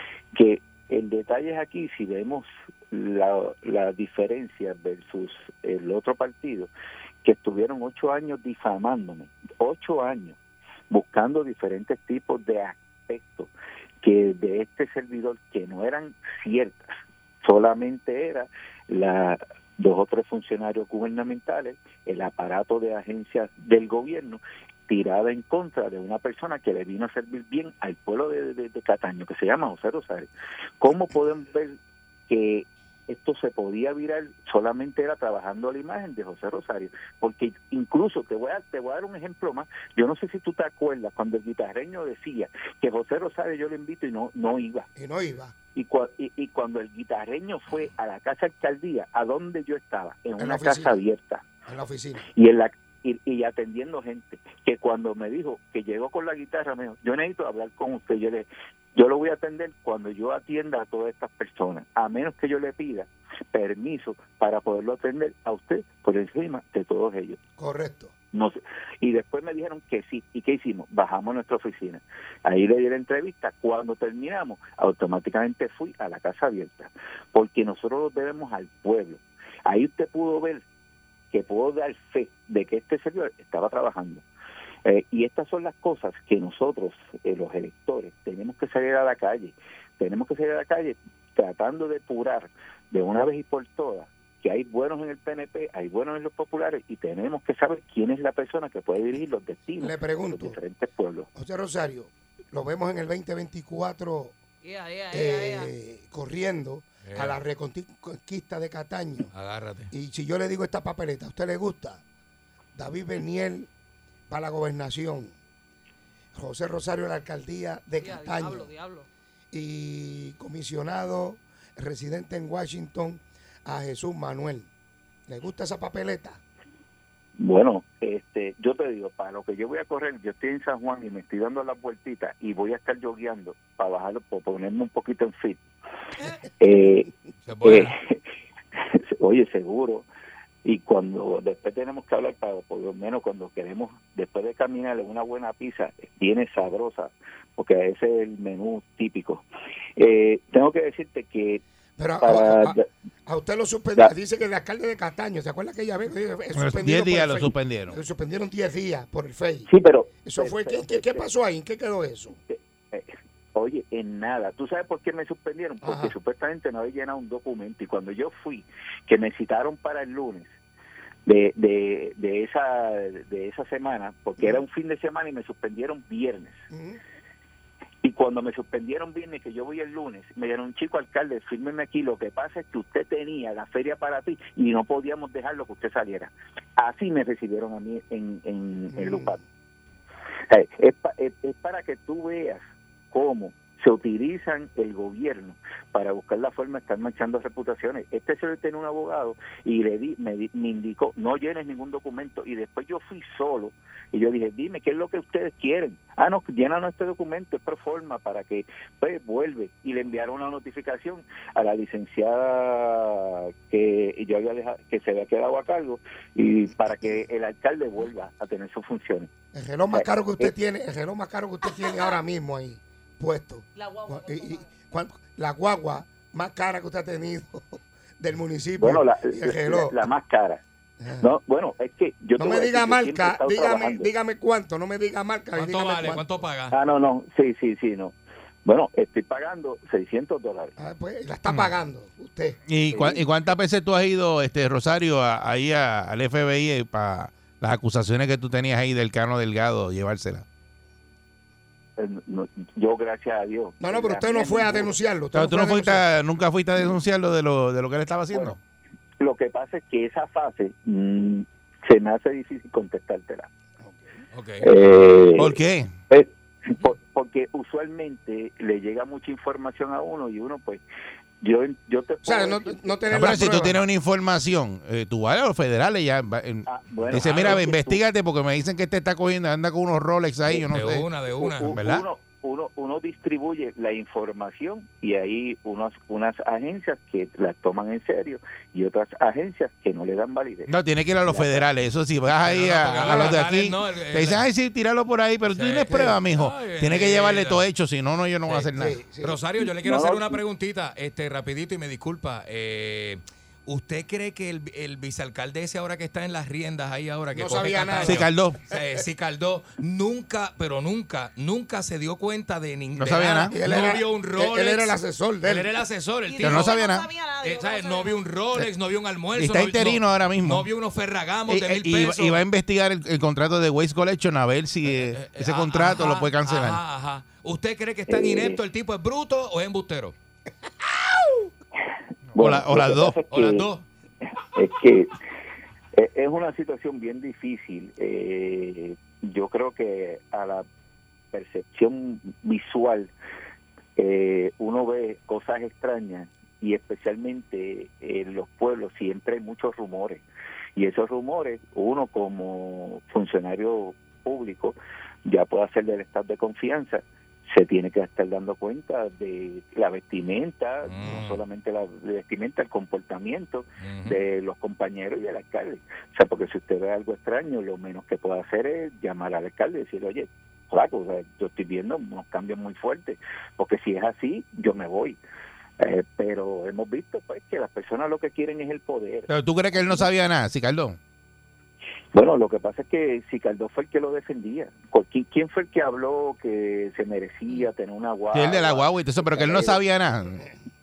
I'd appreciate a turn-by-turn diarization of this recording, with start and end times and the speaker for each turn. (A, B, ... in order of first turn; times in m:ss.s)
0:00.3-0:06.7 A
0:07.2-0:10.4 A
0:10.9-0:13.5 A
0:14.0-0:30.3 A
0:30.8-0:44.9 A
0:44.9-0:45.5 B
0:45.7-0:51.4 A
0:50.4-0:51.0 B
0:51.6-0:52.3 B
0:52.3-1:07.4 A
1:07.6-1:08.1 B
1:08.3-1:20.6 A
1:21.3-1:24.2 A
1:24.8-1:41.3 A
1:39.8-1:40.6 B
1:41.3-1:44.4 B
1:44.6-1:45.7 C
1:45.1-1:49.3 B
1:47.0-1:47.4 D
1:49.3-1:49.9 D
1:49.9-1:52.0 B
1:52.7-1:53.7 B
1:54.3-1:55.3 B
1:56.3-1:58.7 B
1:58.0-1:59.1 C
1:59.5-2:04.7 B
2:05.3-2:06.4 B
2:07.4-2:15.6 A
2:16.6-2:17.1 A
2:17.5-2:17.9 D
2:17.6-2:18.2 A
2:18.8-2:20.0 A
2:20.6-2:29.4 A
2:30.0-2:31.6 A
2:32.0-2:39.7 B
2:32.2-2:32.9 A
2:36.5-2:38.0 E
2:39.7-2:41.3 A
2:40.2-2:42.4 B
2:42.5-2:50.5 A
2:45.8-2:46.1 B
2:51.2-2:56.6 A
2:56.7-2:57.0 B
2:58.0-3:09.4 A
3:08.9-3:09.4 B
3:10.5-3:39.3 A
3:39.5-3:50.0 B
3:39.9-3:40.5 A
3:43.7-3:44.7 C
3:48.8-3:50.6 A
3:51.0-3:51.3 B
3:51.2-3:54.1 A
3:52.4-3:56.3 B
3:55.5-3:56.7 D
3:56.7-4:00.8 A
4:00.8-4:02.6 B
4:02.7-4:10.4 E
4:02.9-4:03.2 A
4:12.0-4:15.0 A
4:13.8-4:16.0 B
4:15.3-4:18.6 E
4:18.3-4:18.6 A
4:19.2-4:23.5 A
4:23.8-4:24.2 B
4:24.3-4:24.7 D
4:24.6-4:25.6 A
4:25.4-4:25.9 E
4:26.1-4:30.8 A
4:31.4-4:33.4 A
4:32.2-4:33.8 B
4:33.1-4:41.1 E
4:36.6-4:38.0 A
4:37.1-4:37.6 D
4:40.7-4:41.8 D
4:41.4-4:50.7 A
4:41.7-4:42.0 E
4:50.7-4:59.0 E
4:51.2-4:51.6 A
4:52.4-4:54.4 D
4:53.1-4:53.3 B
4:55.5-4:57.6 D
4:55.9-4:56.2 B
4:58.4-5:16.8 D
4:58.8-4:59.4 B
4:59.6-5:00.4 A
5:07.3-5:08.3 B
5:08.0-5:08.6 E
5:13.0-5:13.6 E
5:13.5-5:15.7 B
5:16.3-5:18.2 C
5:16.4-5:17.1 E
5:17.4-5:22.4 D
5:19.4-5:20.7 E
5:21.5-5:26.8 E
5:24.9-5:30.1 D
5:28.1-5:28.6 A
5:32.3-5:33.2 E
5:32.3-5:33.7 A
5:33.3-5:33.9 D
5:34.2-5:35.2 A
5:35.9-5:40.6 A
5:41.3-5:43.1 A
5:44.0-5:50.2 A
5:50.8-6:15.2 A
6:00.9-6:01.4 D
6:03.8-6:04.2 D
6:15.8-6:19.3 A
6:19.3-6:21.0 E
6:22.1-6:29.8 A
6:28.3-6:30.4 E